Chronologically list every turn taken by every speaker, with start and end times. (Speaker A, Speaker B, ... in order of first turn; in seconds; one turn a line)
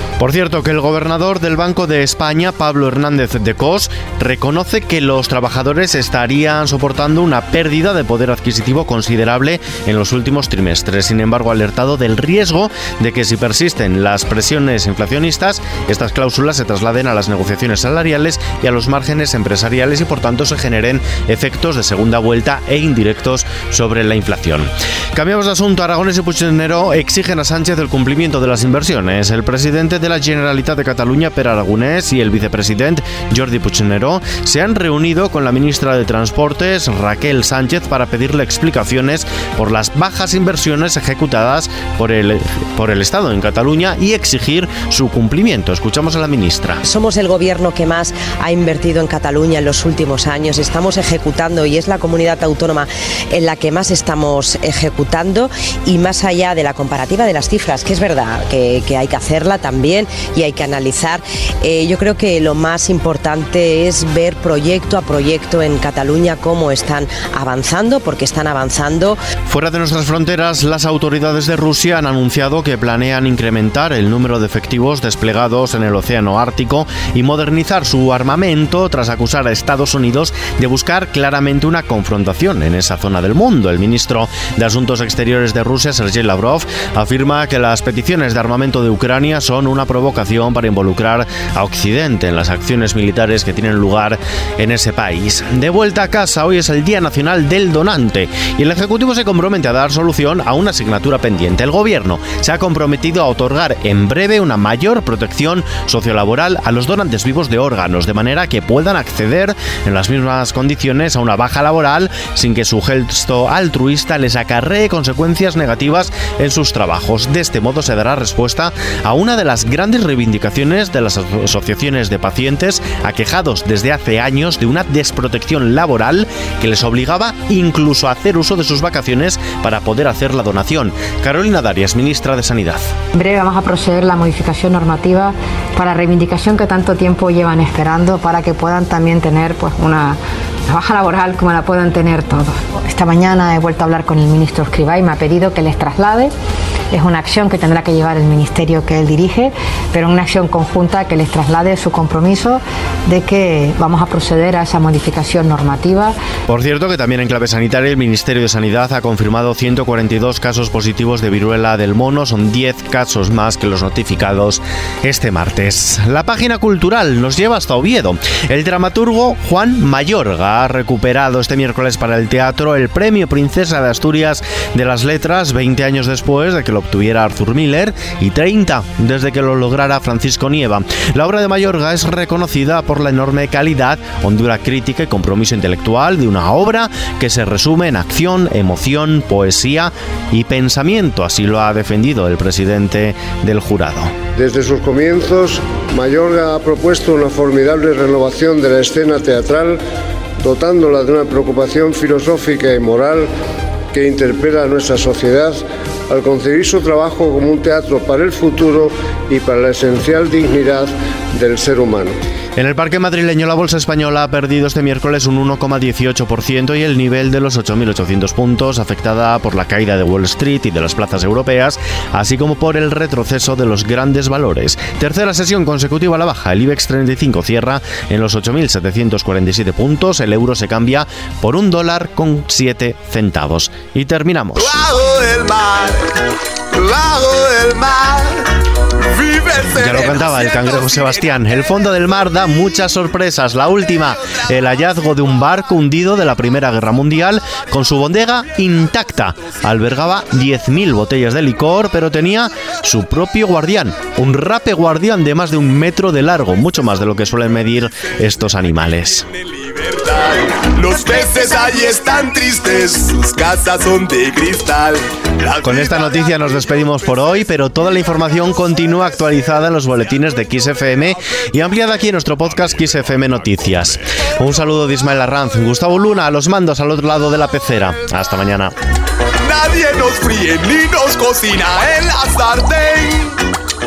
Speaker A: 0.2-46.8
Speaker B: 46.9-69.2
Speaker A: 69.5-132.9
Speaker C: 133.2-146.3
Speaker C: 146.9-156.2
Speaker A: 156.5-194.1
Speaker D: 194.4-199.8
Speaker D: 200.4-203.3
Speaker D: 203.9-212.2
Speaker A: 212.6-234.8
Speaker E: 234.7-236.1
Speaker E: 236.7-241.4
Speaker A: 239.8-259.3
Speaker E: 259.5-266.5
Speaker A: 265.6-278.7
Speaker E: 279.4-283.4